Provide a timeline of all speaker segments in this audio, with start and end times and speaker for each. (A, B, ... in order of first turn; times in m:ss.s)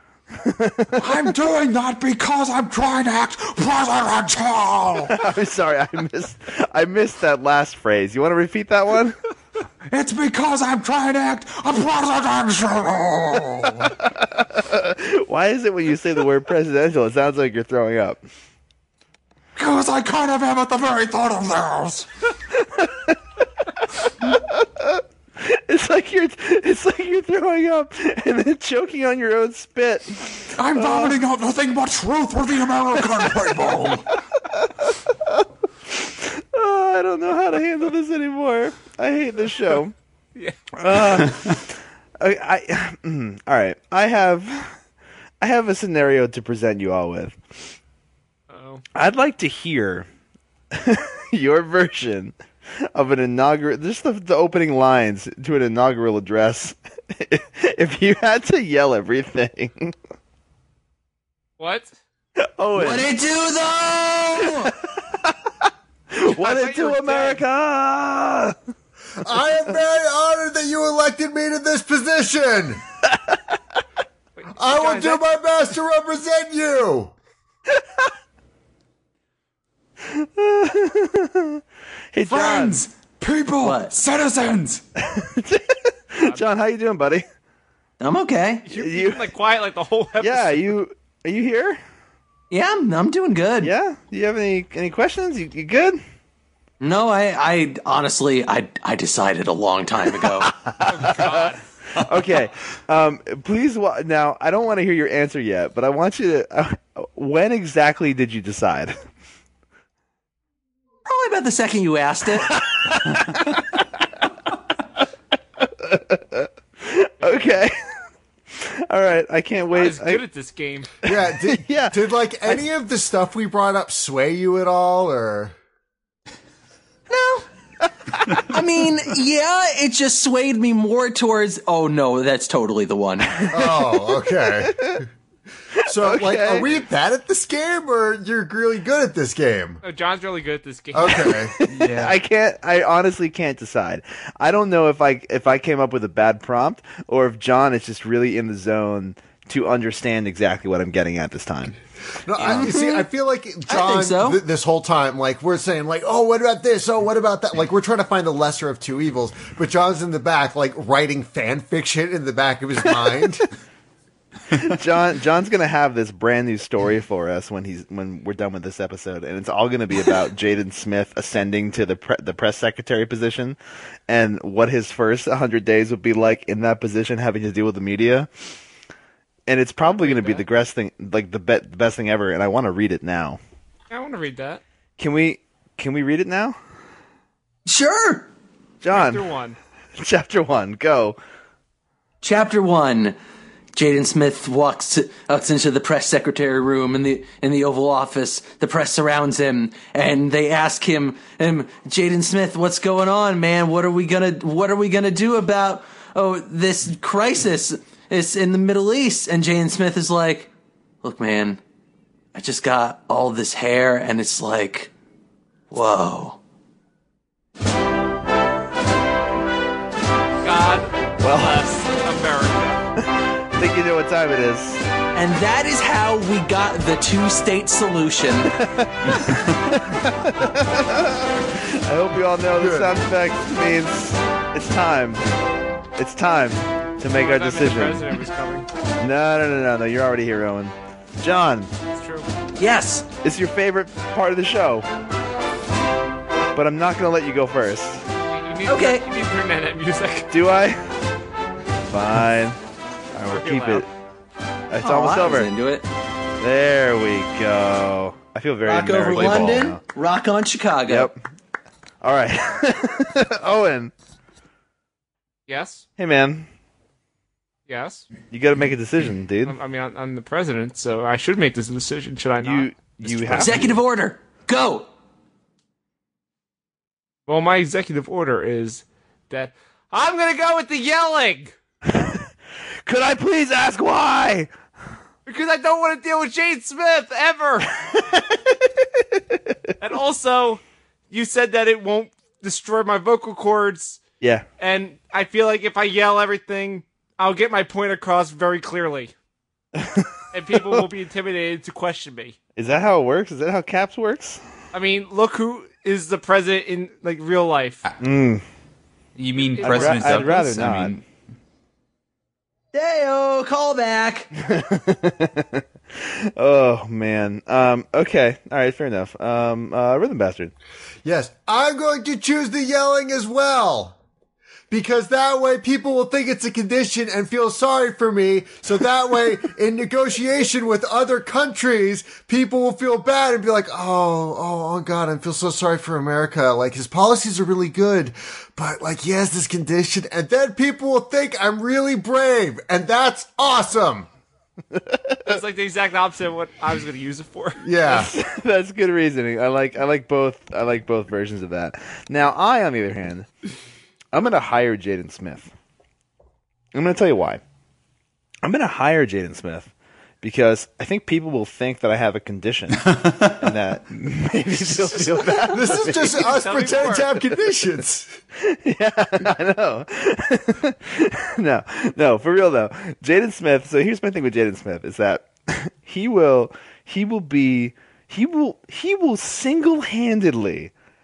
0:00.3-0:01.4 A
0:01.0-0:05.2 B
0:05.1-0:09.2 A
0:09.9-0:14.0 B
0:14.0-0:18.2 A
0:19.6-0:22.1 B
0:22.6-0:23.2 A
0:24.2-0:31.2 A
0:30.6-0:34.2 B
0:34.5-0:39.9 A
0:40.7-0:44.8 A
0:45.4-0:47.4 A
0:48.5-0:48.8 C
0:48.9-0:50.1 A
0:50.7-1:00.0 A
1:01.6-1:01.9 C
1:02.4-1:03.1 A
1:02.8-1:04.7 D
1:04.6-1:08.6 A
1:06.2-1:07.4 C
1:09.2-1:12.8 E
1:13.1-1:13.6 A
1:14.4-1:15.2 C
1:14.6-1:17.1 E
1:17.7-1:18.0 A
1:20.0-1:21.6 A
1:22.1-1:22.8 A
1:22.3-1:24.8 B
1:23.6-1:24.0 D
1:25.0-1:27.2 A
1:28.0-1:28.7 D
1:28.7-1:30.7 C
1:28.7-1:29.3 A
1:30.2-1:31.8 A
1:32.5-1:33.7 D
1:33.6-1:36.0 A
1:36.8-1:40.5 D
1:40.3-1:49.0 A
1:40.9-1:41.6 C
1:51.1-1:52.6 D
1:52.8-1:53.8 A
1:55.6-1:57.8 A
1:57.2-1:57.5 C
1:58.5-2:00.2 A
1:59.7-2:00.9 C
2:01.0-2:02.6 A
2:01.0-2:05.5 E
2:07.1-2:07.4 D
2:08.3-2:13.5 D
2:13.5-2:15.1 E
2:13.5-2:15.0 A
2:15.7-2:16.8 A
2:15.8-2:19.8 E
2:19.8-2:21.4 C
2:20.9-2:21.6 E
2:21.2-2:31.8 A
2:21.6-2:22.2 B
2:32.2-2:43.5 E
2:32.4-2:32.7 A
2:32.4-2:33.1 D
2:33.7-2:34.4 D
2:44.5-2:53.6 A
2:54.1-2:58.3 A
2:59.5-3:03.4 A
2:59.8-3:00.4 C
3:03.9-3:04.6 C
3:05.0-3:06.6 A
3:07.6-3:08.3 D
3:08.8-3:09.2 A
3:08.9-3:09.6 C
3:10.0-3:11.2 A
3:12.2-3:13.2 D
3:13.8-3:30.5 D
3:31.0-3:31.6 D
3:32.3-3:34.9 D
3:35.7-3:36.4 D
3:40.4-3:42.8 C
3:41.2-3:41.7 A
3:43.0-3:44.8 A
3:45.1-3:48.5 D
3:48.5-3:55.2 A
3:49.1-3:49.8 B
3:52.6-3:52.9 E
3:56.0-3:58.2 A
3:57.1-3:58.7 C
3:59.0-4:01.7 A
4:01.9-4:02.3 C
4:02.6-4:03.1 D
4:03.2-4:04.9 A
4:06.6-4:08.1 A
4:08.3-4:10.3 C
4:08.7-4:09.0 D
4:10.3-4:10.9 A
4:11.9-4:12.6 A
4:13.1-4:13.9 A
4:13.3-4:13.9 C
4:14.7-4:15.5 A
4:14.8-4:15.9 D
4:16.4-4:19.8 A
4:18.6-4:21.1 D
4:19.2-4:19.4 B
4:20.9-4:21.2 A
4:22.0-4:23.9 A
4:25.5-4:25.8 C
4:26.0-4:26.5 A
4:27.7-4:28.1 C
4:28.3-4:29.6 A
4:29.4-4:32.7 C
4:32.4-4:33.8 A
4:33.3-4:34.9 D
4:37.3-4:41.5 C
4:41.9-4:42.3 A
4:42.8-4:44.5 A
4:45.3-4:47.7 C
4:48.0-4:49.6 A
4:49.8-4:54.0 C
4:54.2-4:54.5 A
4:54.6-4:59.1 C
4:59.8-5:00.8 A
5:00.3-5:02.4 C
5:02.6-5:04.4 A
5:04.7-5:07.8 C
5:08.0-5:08.4 A
5:09.2-5:11.0 B
5:09.6-5:10.4 C
5:09.6-5:11.0 A
5:12.7-5:14.3 D
5:14.4-5:20.5 A
5:21.0-5:24.0 E
5:24.7-5:44.1 E
5:44.7-5:45.4 A
5:45.2-5:47.6 C
5:47.6-5:48.1 E
5:47.8-5:53.3 A
5:54.1-5:55.5 A
5:56.7-5:57.4 A
5:58.4-6:07.2 A
6:02.8-6:03.4 B
6:05.4-6:08.2 E
6:06.2-6:07.1 C
6:08.4-6:20.7 A